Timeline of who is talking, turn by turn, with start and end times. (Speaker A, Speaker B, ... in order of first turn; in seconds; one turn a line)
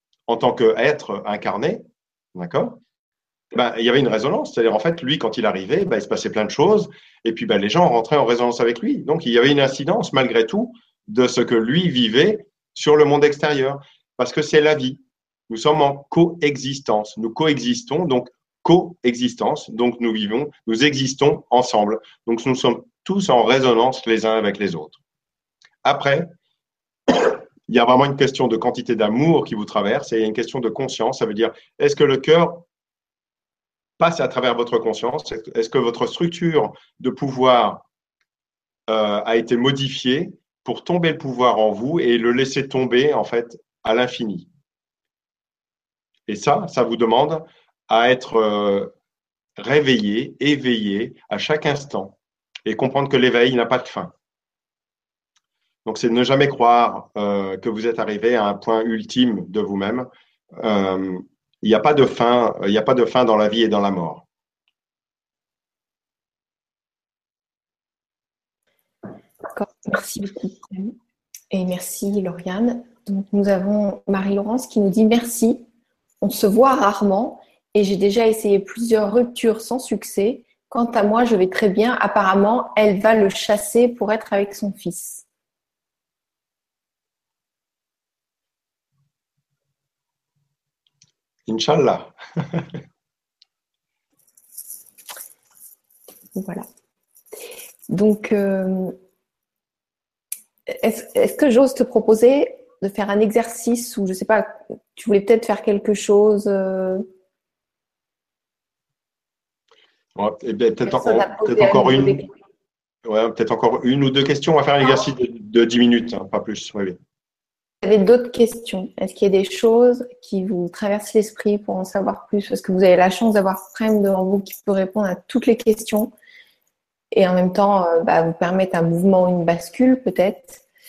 Speaker A: 0.3-2.8
Speaker A: 3.5-25.0
Speaker A: 25.8-26.3
Speaker A: 27.1-32.6
Speaker A: 34.0-37.9
Speaker A: 38.9-44.5
Speaker A: 46.3-48.9
Speaker A: 49.6-54.1
Speaker A: 55.9-64.2
Speaker B: 69.5-71.0
Speaker B: 71.5-75.6
Speaker B: 76.2-85.2
Speaker A: 91.5-92.8
Speaker B: 96.3-96.7
Speaker B: 97.9-99.0
Speaker B: 100.7-107.1
Speaker A: 110.2-112.2
Speaker B: 110.8-112.3
Speaker A: 113.0-117.0
Speaker B: 117.8-126.1
Speaker B: 127.1-130.6